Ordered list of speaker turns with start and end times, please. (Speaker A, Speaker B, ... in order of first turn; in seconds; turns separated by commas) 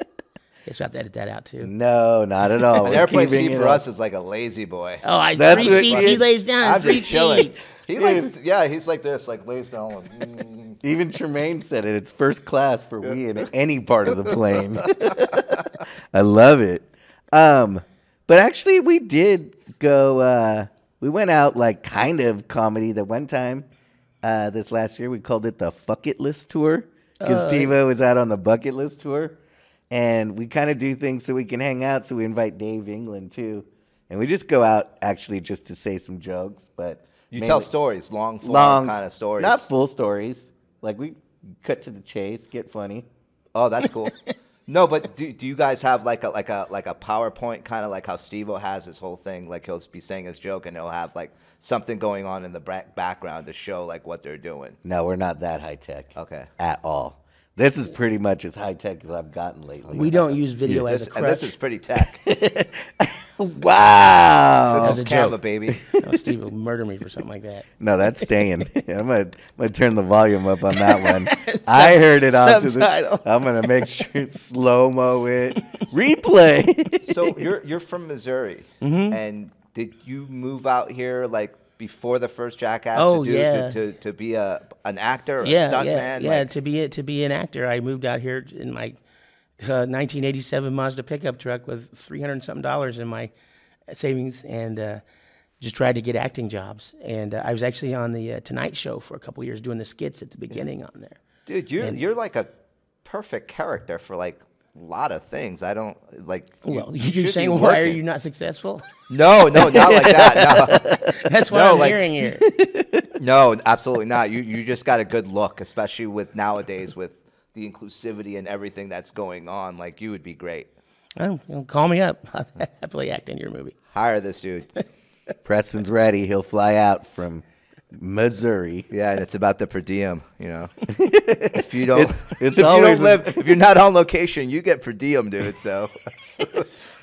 Speaker A: 0.7-1.7, Speaker B: 1.6-3.8, Speaker C: 2.8-10.8, Speaker A: 5.0-7.7, Speaker B: 5.3-6.2, Speaker B: 7.9-8.3, Speaker B: 10.8-23.7, Speaker C: 14.2-15.4, Speaker B: 24.2-29.4, Speaker A: 27.2-27.7, Speaker B: 29.9-37.7, Speaker C: 37.3-39.7, Speaker B: 38.4-43.1, Speaker C: 43.5-44.2, Speaker C: 44.7-54.8, Speaker B: 54.8-60.8, Speaker C: 56.1-56.5, Speaker C: 59.9-60.1, Speaker A: 59.9-61.5, Speaker C: 60.7-62.2, Speaker B: 62.0-65.1, Speaker C: 64.7-65.8, Speaker A: 64.8-65.4, Speaker B: 65.7-66.3, Speaker A: 65.9-67.7, Speaker B: 67.8-77.1, Speaker A: 70.7-73.9, Speaker C: 77.0-86.5, Speaker A: 78.8-79.2, Speaker A: 83.0-83.8, Speaker A: 85.4-89.0, Speaker A: 89.6-93.3, Speaker A: 93.9-95.0, Speaker A: 95.6-101.2, Speaker C: 101.5-102.5, Speaker C: 103.0-108.0, Speaker A: 106.7-108.8, Speaker C: 109.1-110.9, Speaker A: 109.5-112.5, Speaker B: 109.6-111.1, Speaker C: 111.5-112.1, Speaker B: 112.4-113.1, Speaker C: 113.2-120.7, Speaker A: 121.2-123.8, Speaker C: 123.9-124.7, Speaker B: 125.5-128.9, Speaker C: 128.9-130.7, Speaker B: 130.9-133.6, Speaker C: 131.5-136.8